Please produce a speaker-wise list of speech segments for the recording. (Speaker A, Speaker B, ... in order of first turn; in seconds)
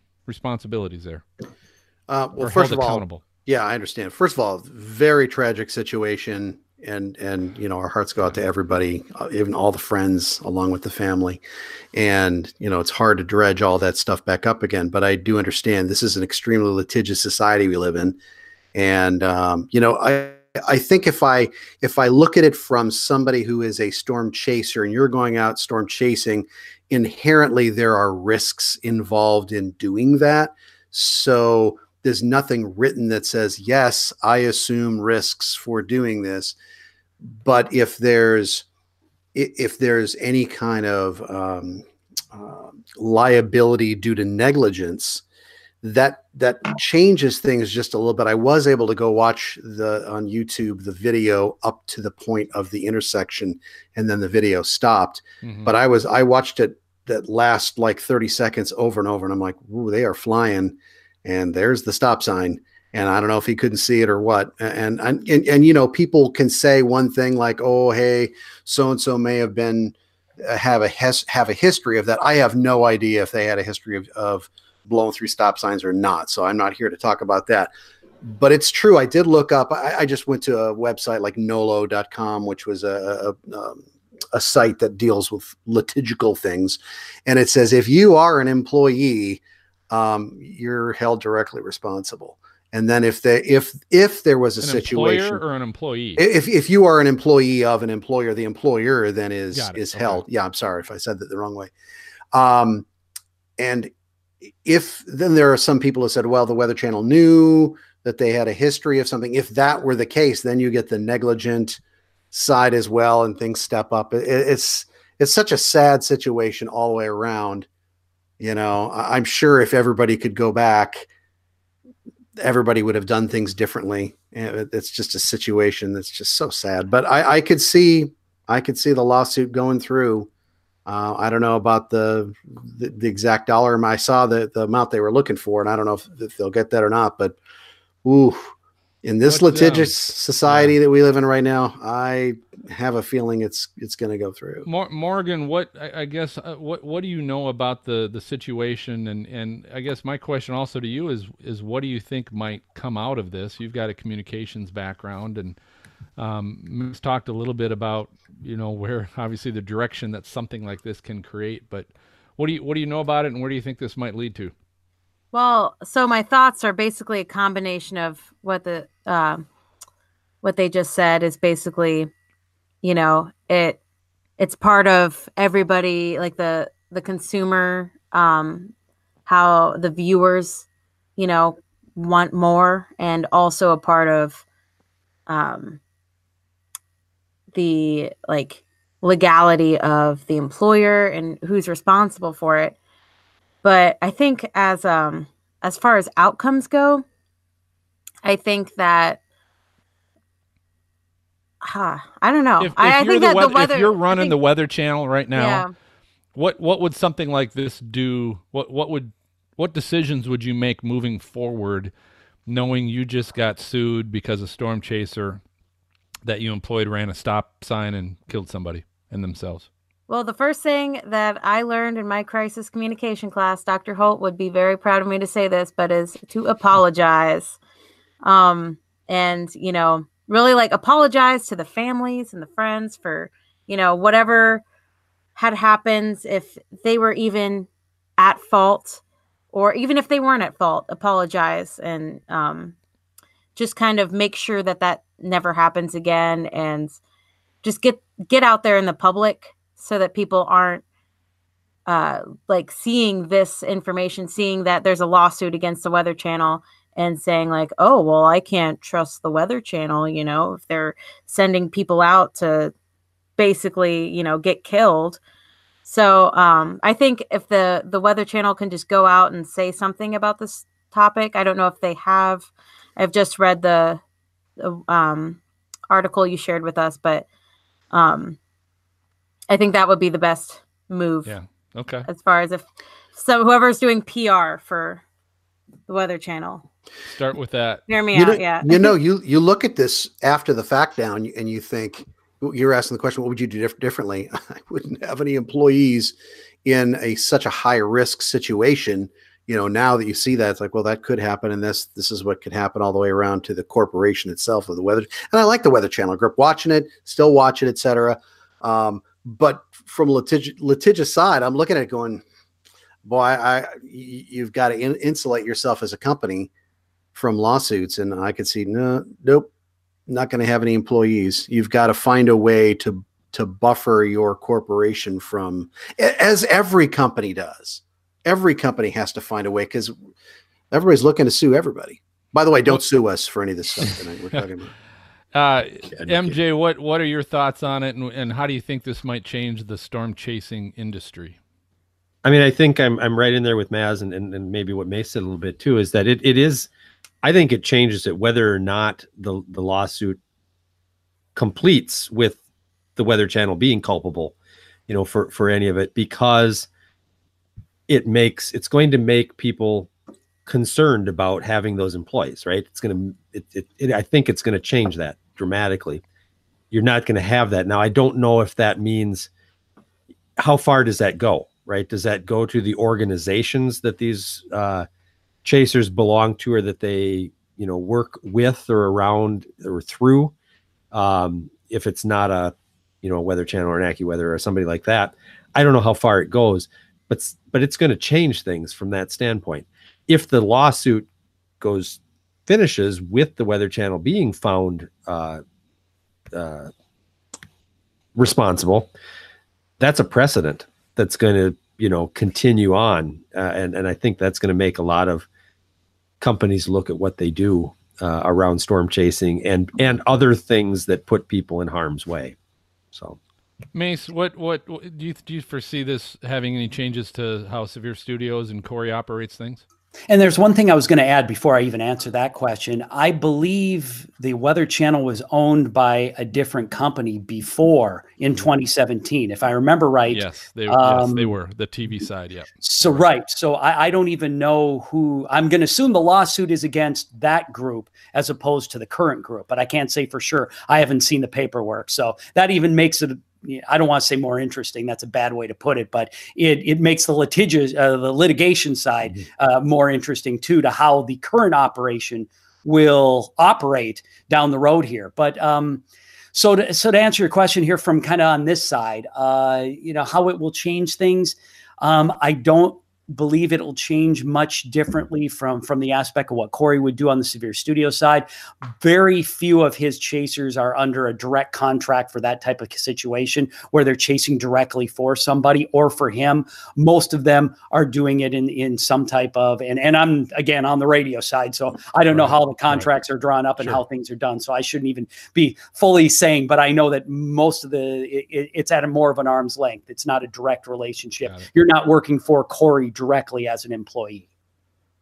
Speaker A: 0.3-1.2, 2.4-3.2, 55.4-55.7, 94.6-96.2, 99.5-100.3, 139.3-139.9, 140.5-140.8, 144.7-155.6, 156.2-164.5, 202.6-205.7, 206.3-211.9, 212.5-215.4, 216.2-219.7, 281.3-282.1, 287.1-287.8, 333.8-334.4, 335.3-341.4, 413.7-419.6, 430.1-433.1, 482.2-482.8
Speaker B: 2.1-11.4, 11.9-18.2, 18.8-36.5, 37.4-38.6, 39.4-45.2, 45.8-77.7, 78.2-95.4, 96.2-101.7, 102.3-102.9, 103.6-103.9, 104.6-111.8, 112.3-117.7, 118.4-121.1, 122.4-130.3, 130.9-137.4, 138.0-138.5, 139.0-144.7, 288.1-312.2, 313.1-316.5, 317.1-319.5, 320.1-329.9, 330.7-334.7, 335.9-336.4
Speaker C: 165.3-169.4, 170.4-172.1, 172.8-173.8, 174.4-178.7, 179.3-184.4, 185.3-185.8, 187.5-192.8, 193.6-197.0, 198.2-199.2, 201.6-204.3, 205.3-205.7, 220.1-227.6, 228.2-234.6, 235.4-239.0, 239.5-242.8, 243.6-247.0, 247.6-250.8, 251.9-262.7, 263.4-265.2, 265.9-274.0, 274.6-277.3, 277.9-278.4, 279.5-281.4, 282.1-285.0, 285.9-286.6, 287.9-288.9
Speaker D: 342.2-346.7, 347.2-350.2, 351.4-352.4, 353.0-354.3, 354.9-356.7, 357.9-359.9, 360.5-366.0, 366.7-369.3, 370.4-374.9, 375.4-380.3, 380.9-391.1, 391.6-395.4, 396.3-396.7, 398.2-398.9, 399.8-405.3, 406.2-412.4, 412.9-413.2
Speaker E: 420.1-431.3, 432.6-494.3